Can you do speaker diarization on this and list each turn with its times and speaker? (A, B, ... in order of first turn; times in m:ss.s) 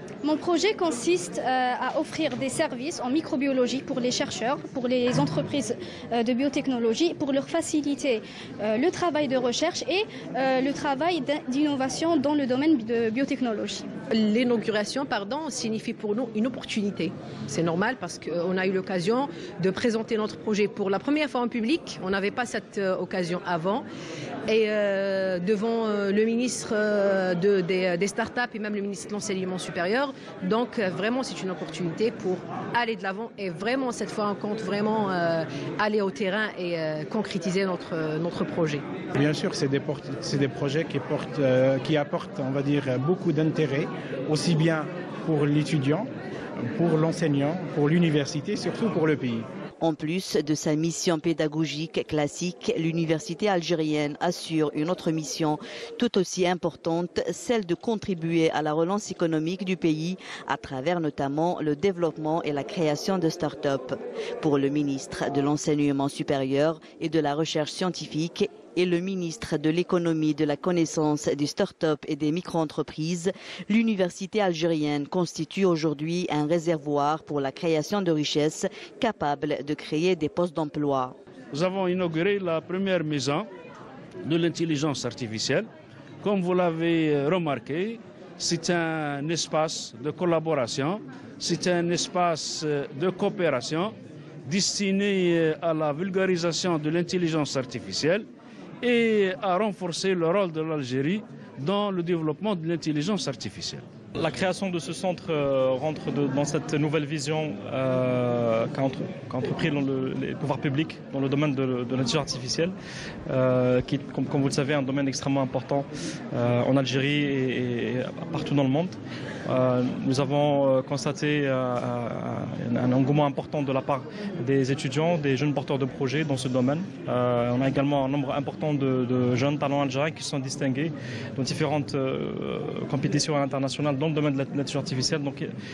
0:00.2-0:13.8 A
0:14.1-0:23.8 B
0:24.5-0:38.8 B
0:39.2-0:46.1 C
0:46.7-0:49.4 C
0:49.8-1:21.2 D
1:21.5-1:23.5 E
1:24.2-1:25.7 E
1:26.2-1:33.9 E
1:34.4-1:38.3 E
1:38.8-1:43.8 E
1:44.2-1:52.7 F
1:53.3-2:15.5 F